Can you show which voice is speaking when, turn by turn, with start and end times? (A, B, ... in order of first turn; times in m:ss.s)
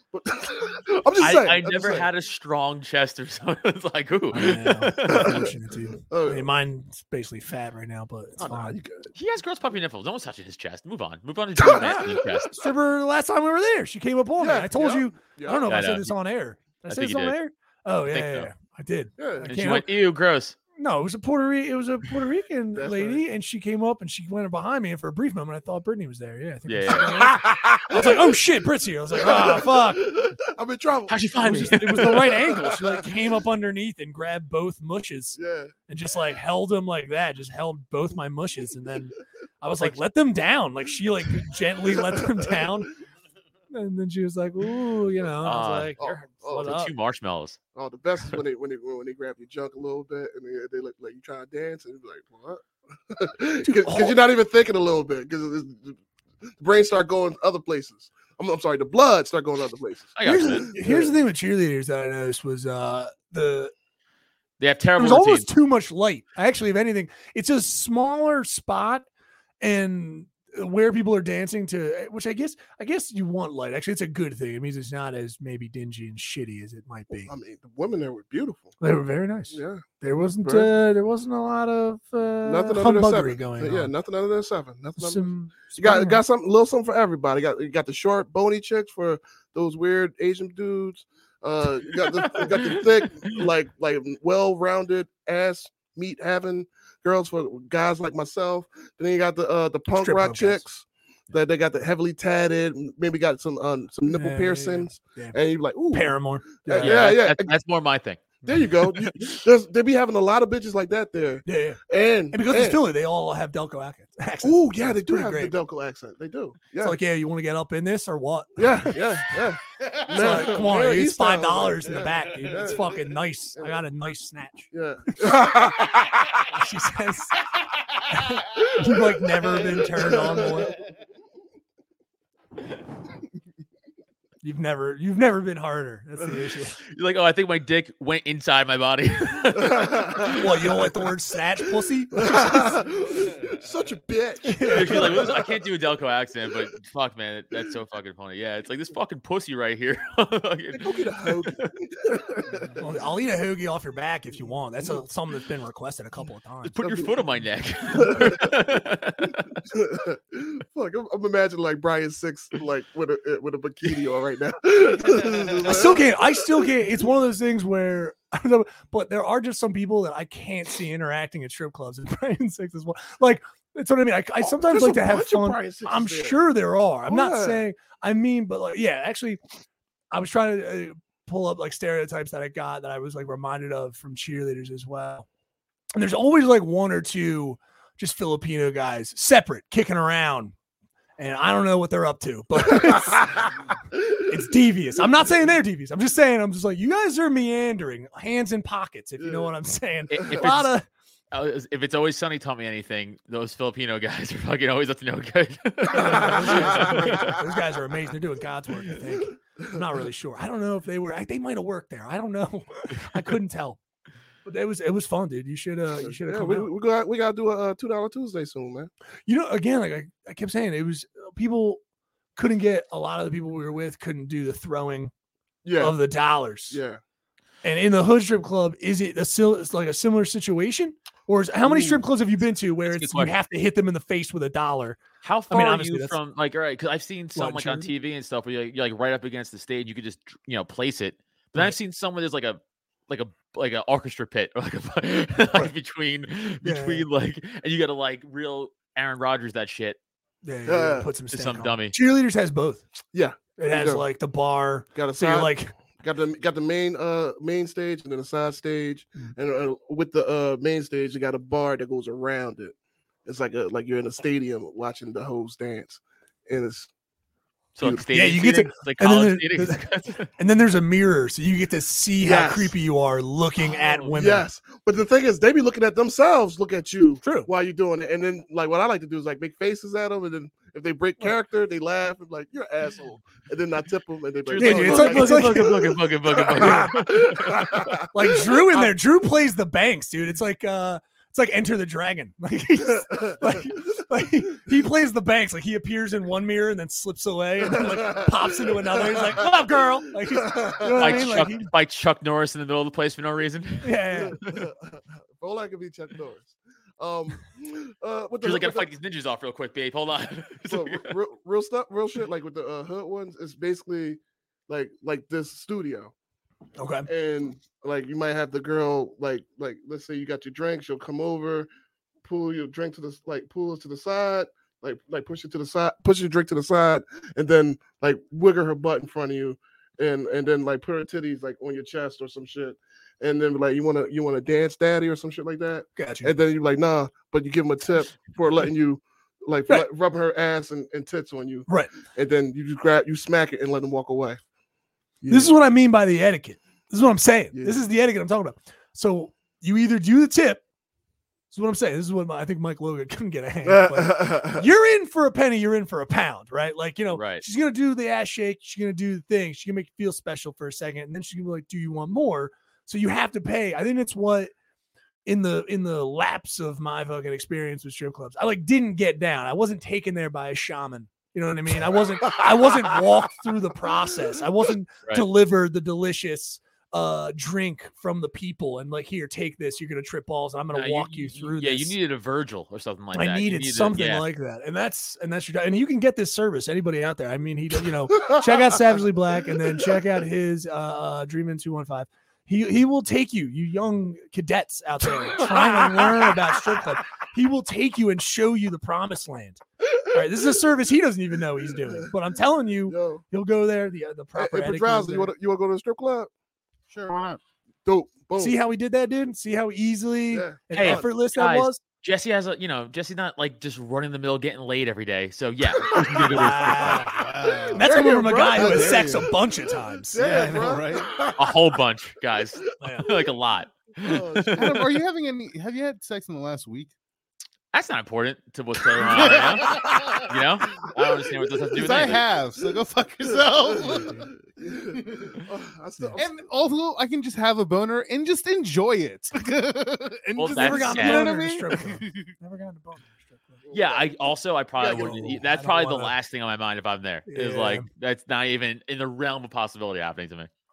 0:00.1-0:02.1 A
0:01.2-0:05.4 B
0:04.3-0:08.8 C
0:05.0-0:05.5 A
0:06.1-0:06.5 A
0:08.4-0:09.1 A
0:09.1-0:12.6 B
0:11.6-0:12.4 A
0:11.7-0:19.9 C
0:14.4-0:15.7 A
0:15.7-0:16.1 B
0:16.9-0:17.3 B
0:18.1-0:18.5 B
0:19.2-0:19.5 A
0:19.5-0:20.6 B
0:20.8-0:30.1 C
0:22.7-0:23.2 A
0:26.7-0:27.4 B
0:27.4-0:28.4 A
0:29.1-0:33.1 A
0:31.1-0:32.4 B
0:31.4-0:42.9 C
0:35.4-0:35.7 A
0:41.8-0:42.7 A
0:43.7-0:46.9 C
0:45.4-0:46.0 B
0:46.0-0:46.8 A
0:46.6-0:47.6 B
0:47.7-0:56.0 A
0:53.6-0:54.2 C
0:56.6-1:01.1 A
1:00.2-1:00.7 B
1:00.2-1:03.7 C
1:04.6-1:05.5 B
1:05.0-1:09.0 C
1:09.6-1:17.3 C
1:17.1-1:18.7 A
1:18.8-1:23.9 C
1:19.5-1:19.9 A
1:20.4-1:20.7 A
1:22.4-1:47.5 A
1:25.0-1:26.2 C
1:32.0-1:33.4 B
1:39.9-1:40.6 C
1:44.0-1:45.4 C
1:45.9-1:47.0 C
1:46.8-1:48.2 B
1:48.4-1:52.8 A
1:48.9-1:49.3 B
1:51.4-1:55.6 C
1:54.4-1:57.0 A
1:56.8-1:59.2 C
1:58.6-2:03.8 A
2:00.1-2:05.2 C
2:04.7-2:06.5 A
2:06.5-2:07.4 C
2:08.1-2:10.7 C
2:08.5-2:10.7 A
2:14.4-2:16.8 C
2:16.9-2:20.8 B
2:19.6-2:20.5 A
2:20.3-2:22.7 C
2:22.1-2:25.4 A
2:24.4-2:25.2 C
2:24.7-2:31.7 B
2:30.7-2:32.8 A
2:32.8-2:36.7 C
2:36.7-2:39.5 B
2:36.8-2:37.2 A
2:37.9-2:38.5 A
2:39.6-2:46.6 A
2:45.6-2:59.4 C
2:54.4-2:56.4 A
2:57.1-2:57.6 A
3:00.1-3:05.3 C
3:05.9-3:10.5 C
3:11.2-3:13.6 C
3:12.7-3:14.0 A
3:14.1-3:20.8 C
3:19.2-3:19.5 A
3:20.1-3:20.7 B
3:21.3-3:27.3 B
3:25.9-3:33.8 C
3:25.9-3:27.4 A
3:34.4-3:36.7 C
3:36.0-3:38.9 A
3:39.3-3:41.8 C
3:42.4-3:45.1 C
3:45.6-3:46.0 A
3:45.8-3:46.8 C
3:46.7-3:47.0 A
3:47.6-3:56.2 C
3:51.6-3:52.0 A
3:52.8-3:53.3 B
3:55.2-4:10.0 B
3:57.4-3:57.9 C
4:06.6-4:07.0 C
4:10.4-4:12.9 C
4:10.6-4:11.1 A
4:11.3-4:11.9 B
4:13.1-4:14.0 A
4:13.6-4:15.7 C
4:14.9-4:26.9 A
4:27.8-4:30.3 B
4:27.8-4:28.0 A
4:28.1-4:29.8 C
4:30.4-4:34.4 C
4:32.2-4:32.7 A
4:33.7-4:34.1 B
4:34.1-4:48.8 A
4:37.2-4:37.5 C
4:44.4-4:48.0 B
4:44.6-4:45.9 C
4:46.6-4:46.9 C
4:48.1-5:01.7 C
4:53.1-4:53.6 A
4:57.6-4:59.5 A
5:00.2-5:01.4 A
5:00.9-5:04.6 B
5:03.8-5:04.4 C
5:04.1-5:08.9 A
5:08.4-5:11.1 B
5:10.7-5:16.1 A
5:16.8-5:17.1 C
5:17.1-5:21.7 A
5:22.2-5:44.4 A
5:36.0-5:36.3 C
5:45.2-5:45.5 A
5:45.3-5:50.6 C
5:47.5-5:47.8 A
5:51.5-6:04.5 C
5:53.6-5:54.6 A
5:57.1-5:57.4 B
6:05.2-6:21.9 C
6:20.7-6:24.2 B
6:23.1-6:45.3 C
6:35.2-6:36.4 A
6:41.8-6:42.1 A
6:42.9-6:43.2 A
6:44.4-6:46.3 A
6:46.9-6:47.4 D
6:47.8-6:48.6 A
6:48.4-6:51.8 C
6:50.3-6:51.1 A
6:50.7-6:57.1 B
6:55.8-6:59.3 A
6:56.1-6:57.2 C
6:57.1-6:57.9 D
6:57.7-7:00.7 C
6:58.5-6:59.3 D
7:00.0-7:01.6 A
7:00.2-7:01.2 D
7:01.3-7:04.9 B
7:02.8-7:03.1 C
7:04.0-7:04.8 A
7:04.5-7:06.9 D
7:07.7-7:12.2 B
7:08.9-7:10.9 D
7:09.3-7:09.9 A
7:11.7-7:14.3 D
7:13.2-7:16.4 A
7:14.9-7:15.4 D
7:16.2-7:22.3 D
7:20.4-7:21.3 B
7:20.5-7:23.6 C
7:23.6-7:25.4 A
7:23.7-7:30.5 B
7:24.9-7:26.1 C
7:27.3-7:27.9 C